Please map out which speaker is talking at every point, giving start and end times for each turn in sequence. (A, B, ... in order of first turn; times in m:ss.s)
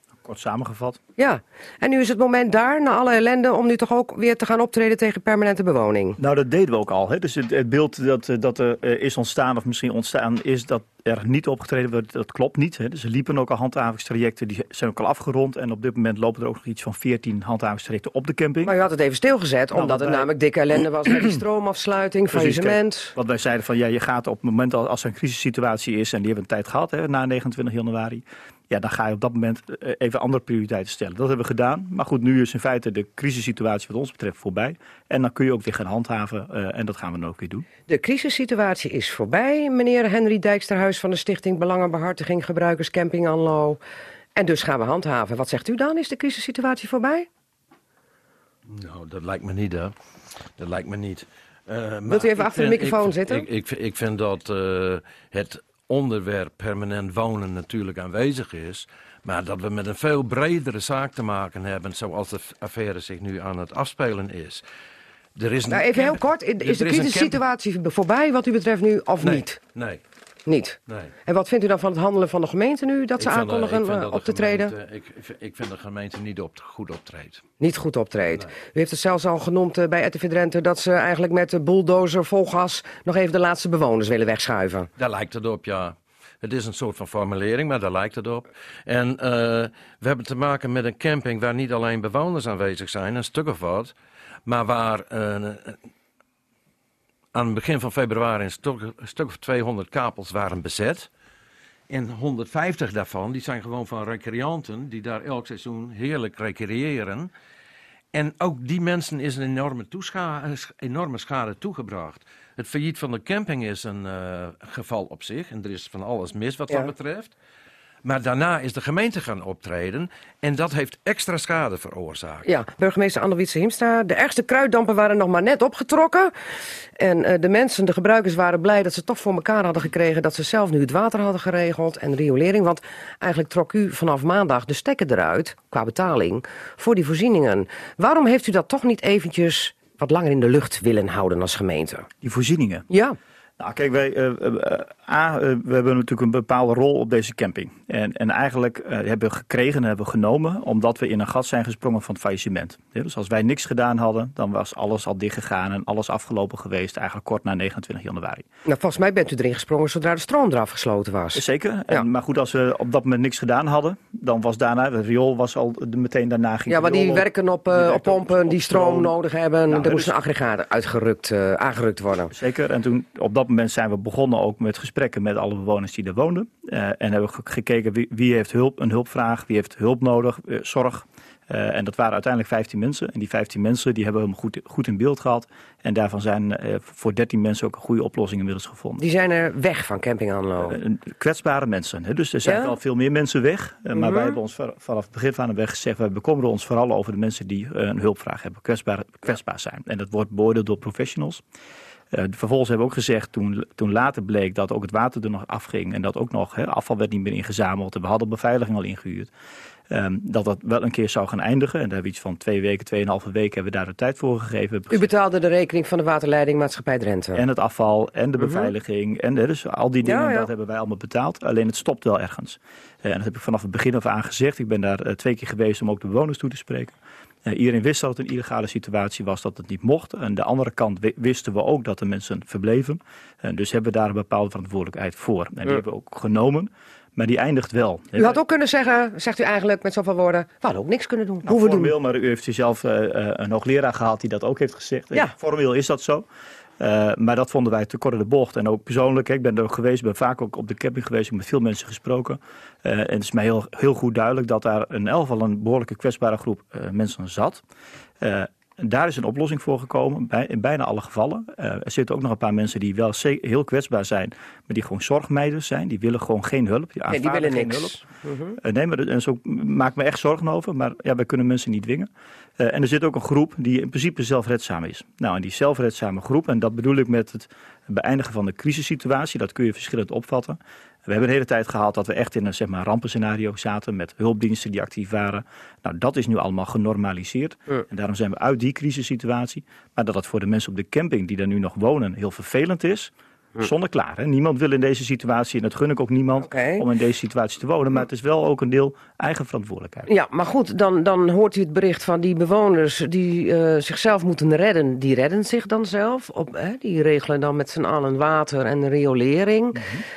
0:00.2-0:01.0 A
0:01.2-0:06.2 B
0:06.2-0:18.8 A
0:18.6-0:23.2 B
0:19.7-0:20.3 A
0:22.3-0:37.7 A
0:37.9-0:43.8 B
0:44.4-0:47.3 B
0:48.7-0:49.9 C
0:50.6-1:04.6 C
0:52.1-0:53.5 B
1:05.4-1:07.4 C
1:05.7-1:09.6 B
1:09.2-1:10.0 C
1:10.5-1:14.7 B
1:10.9-1:11.1 C
1:13.2-1:17.4 C
1:17.6-1:24.9 B
1:25.0-1:33.9 C
1:34.5-1:35.8 C
1:37.3-1:41.1 C
1:41.9-1:47.3 C
1:48.1-1:57.4 C
1:58.0-2:02.5 C
2:02.4-2:06.3 B
2:07.0-2:22.1 B
2:22.2-2:22.9 A
2:22.9-2:23.2 B
2:23.6-2:38.4 A
2:38.6-2:42.1 B
2:41.4-2:49.2 A
2:46.7-2:52.3 B
2:49.7-2:50.1 A
2:52.3-3:09.0 A
3:09.0-3:10.8 B
3:10.6-3:21.4 A
3:12.4-3:12.8 B
3:13.9-3:14.4 B
3:22.1-3:29.3 A
3:29.9-3:35.1 A
3:34.9-3:37.4 B
3:37.3-3:46.9 A
3:38.4-3:38.7 B
3:40.0-3:40.5 B
3:47.4-3:58.4 A
3:58.2-4:01.9 B
4:01.4-4:06.3 A
4:06.8-4:17.6 A
4:18.2-4:28.0 A
4:27.1-4:28.6 B
4:28.6-5:00.1 A
4:56.4-4:56.9 B
5:00.1-5:09.9 B
5:09.8-5:10.0 A